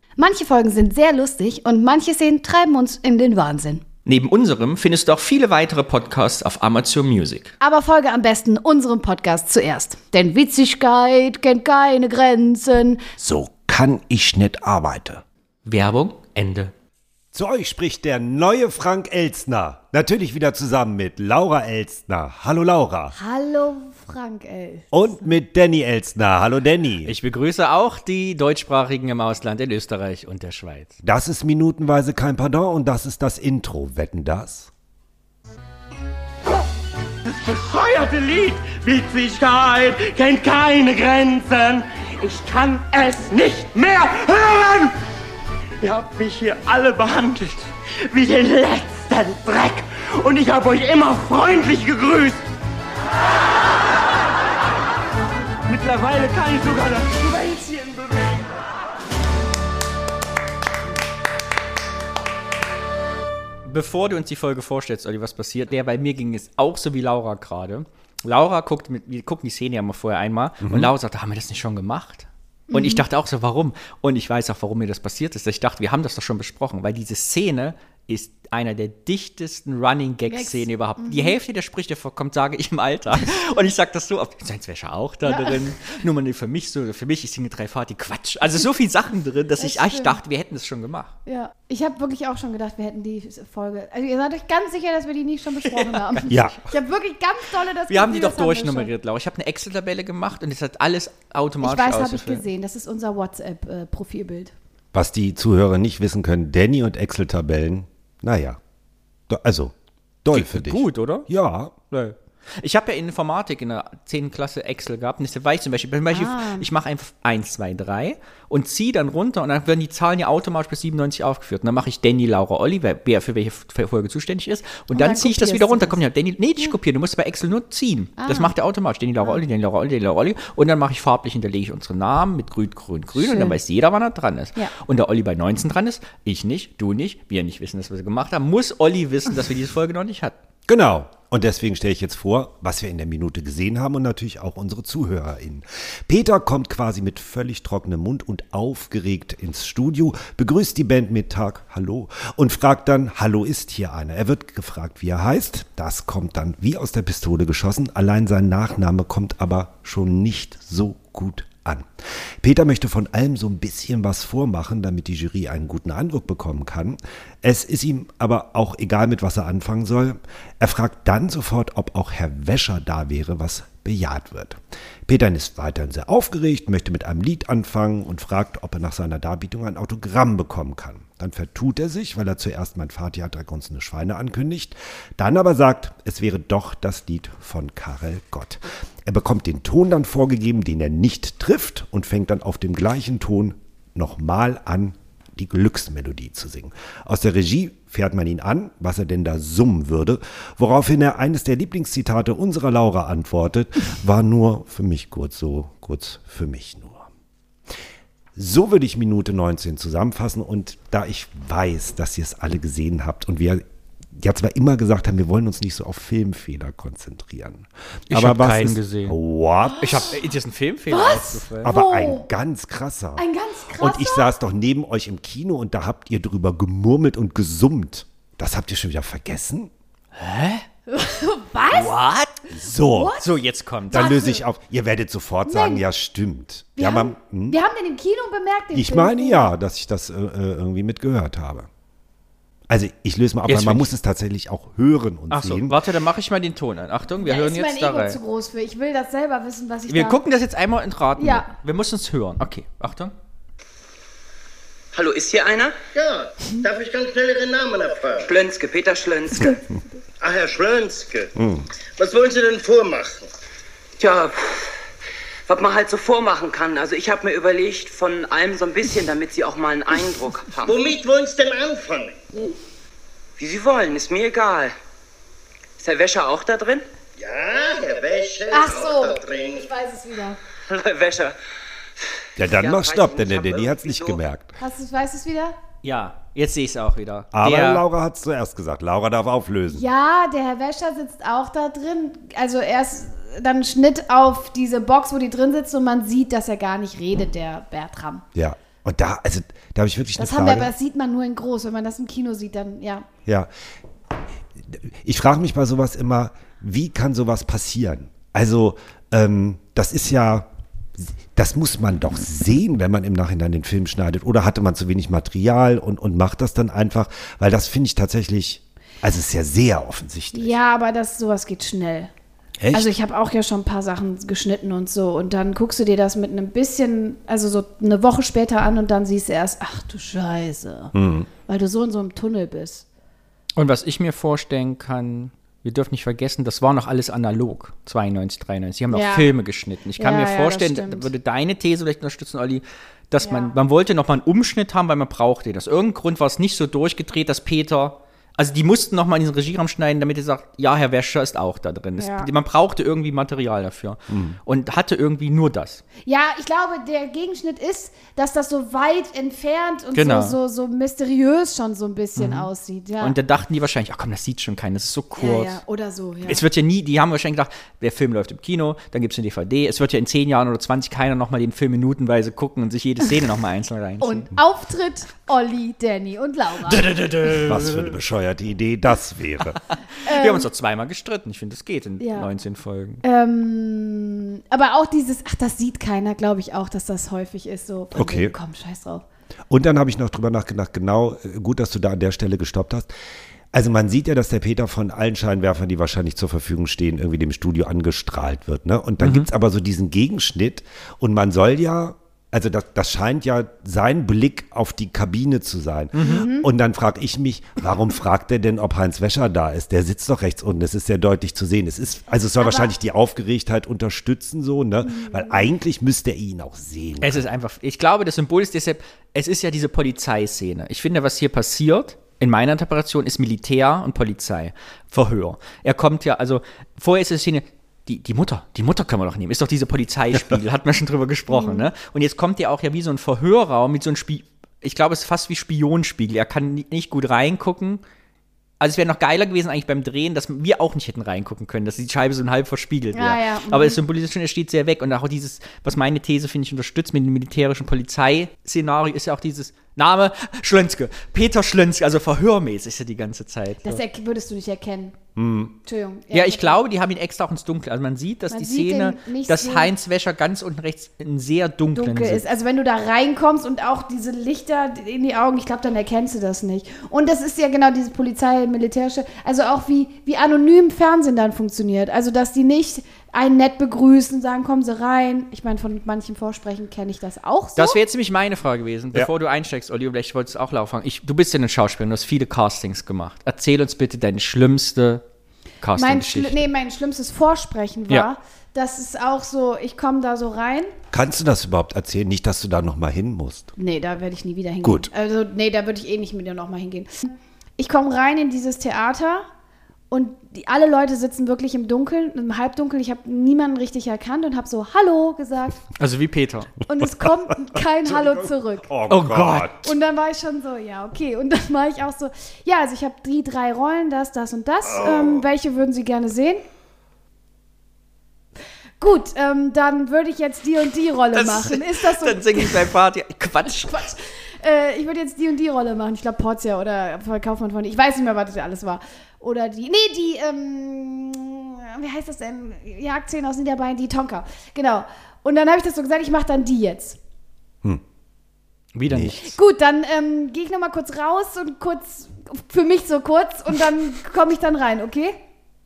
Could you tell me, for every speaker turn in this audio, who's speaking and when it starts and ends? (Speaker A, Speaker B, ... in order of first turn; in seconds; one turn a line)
Speaker A: 0.2-3.8
Speaker B: 4.0-7.5
Speaker A: 7.6-13.0
Speaker C: 13.2-15.2
Speaker B: 15.7-16.7
Speaker C: 17.3-23.1
Speaker A: 23.1-25.1
Speaker C: 24.9-27.1
Speaker B: 27.0-31.0
Speaker C: 31.0-34.7
Speaker D: 37.3-44.9
Speaker D: 45.8-52.4
Speaker D: 55.7-58.6
Speaker B: 63.6-91.1
Speaker C: 70.6-70.9
Speaker A: 72.7-73.0
Speaker A: 80.3-81.4
Speaker A: 85.2-85.7
Speaker A: 89.6-90.2
Speaker A: 91.2-98.9
Speaker B: 95.6-96.6
Speaker C: 96.3-96.6
Speaker B: 97.9-102.4
Speaker A: 101.6-104.5
Speaker C: 104.9-108.6
Speaker C: 109.3-109.7
Speaker C: 110.2-111.7
Speaker B: 110.3-111.3
Speaker B: 111.9-140.3
Speaker A: 116.1-116.7
Speaker A: 124.9-126.0
Speaker A: 128.2-128.5
Speaker A: 133.2-133.6
Speaker C: 140.7-207.1
Speaker C: 208.4-213.6
Speaker C: 214.2-220.1
Speaker B: 218.1-219.2
Speaker B: 219.8-221.7
Speaker A: 220.9-222.3
Speaker C: 221.6-223.2
Speaker A: 223.2-224.3
Speaker C: 223.8-229.7
Speaker B: 230.2-230.7
Speaker A: 230.9-232.0
Speaker B: 231.7-232.4
Speaker C: 232.5-233.2
Speaker A: 232.7-233.3
Speaker B: 233.2-234.2
Speaker A: 233.9-234.4
Speaker C: 233.9-237.6
Speaker A: 235.4-235.8
Speaker A: 236.8-239.5
Speaker C: 238.7-241.7
Speaker C: 242.7-245.8
Speaker B: 243.5-243.9
Speaker B: 245.3-248.2
Speaker A: 247.2-250.2
Speaker B: 249.9-253.1
Speaker A: 251.2-251.5
Speaker E: 254.9-255.8
Speaker F: 255.9-258.3
Speaker E: 258.2-259.6
Speaker F: 260.2-261.3
Speaker C: 261.4-261.7
Speaker F: 262.0-263.3
Speaker E: 264.0-264.7
Speaker E: 265.5-270.8
Speaker F: 270.6-272.2
Speaker E: 273.4-274.8
Speaker E: 275.8-276.9
Speaker F: 277.2-279.7
Speaker A: 278.5-280.4
Speaker E: 280.7-281.4
Speaker C: 282.4-284.6
Speaker E: 282.4-284.2
Speaker A: 284.6-285.6
Speaker B: 285.8-287.8
Speaker C: 287.3-289.9
Speaker A: 289.7-298.2
Speaker C: 298.4-300.7
Speaker A: 300.2-303.1
Speaker C: 304.7-320.5
Speaker A: 320.3-322.1
Speaker C: 322.6-322.9
Speaker A: 322.7-330.9
Speaker C: 330.9-331.3
Speaker A: 331.5-332.9
Speaker B: 333.6-355.8
Speaker A: 338.9-339.3
Speaker A: 340.0-341.1
Speaker A: 343.2-343.6
Speaker A: 352.0-352.3
Speaker C: 354.1-354.4
Speaker A: 356.1-363.2
Speaker B: 359.9-360.4
Speaker B: 362.2-362.5
Speaker B: 363.0-365.6
Speaker A: 365.2-366.4
Speaker B: 366.2-374.3
Speaker A: 374.0-376.9
Speaker B: 376.7-377.9
Speaker C: 377.3-379.6
Speaker B: 379.7-383.0
Speaker A: 380.0-380.5
Speaker A: 382.0-382.3
Speaker A: 383.0-389.1
Speaker C: 387.9-388.4
Speaker C: 389.5-392.9
Speaker C: 393.5-417.2
Speaker B: 399.0-399.3
Speaker B: 405.9-406.3
Speaker A: 406.0-406.5
Speaker A: 412.4-412.7
Speaker A: 414.8-415.5
Speaker B: 417.0-437.8
Speaker A: 431.3-431.7
Speaker B: 438.6-453.8
Speaker A: 442.9-443.8
Speaker A: 453.6-455.0
Speaker C: 455.2-455.5
Speaker A: 455.6-456.6
Speaker B: 456.1-462.2
Speaker A: 458.3-459.7
Speaker A: 461.7-477.8
Speaker B: 477.6-485.0
Speaker B: 485.6-486.5
Speaker A: 485.8-490.7
Speaker C: 490.9-493.5
Speaker A: 493.6-499.3
Speaker C: 494.6-494.9
Speaker A: 499.9-505.6
Speaker B: 505.8-506.5
Speaker A: 506.7-508.7
Speaker C: 507.8-509.7
Speaker B: 508.9-509.5
Speaker A: 509.6-516.4
Speaker C: 514.8-515.0
Speaker A: 518.8-522.7
Speaker B: 521.1-523.8
Speaker A: 523.5-537.0
Speaker B: 538.8-539.4
Speaker C: 538.9-539.3
Speaker A: 539.2-545.2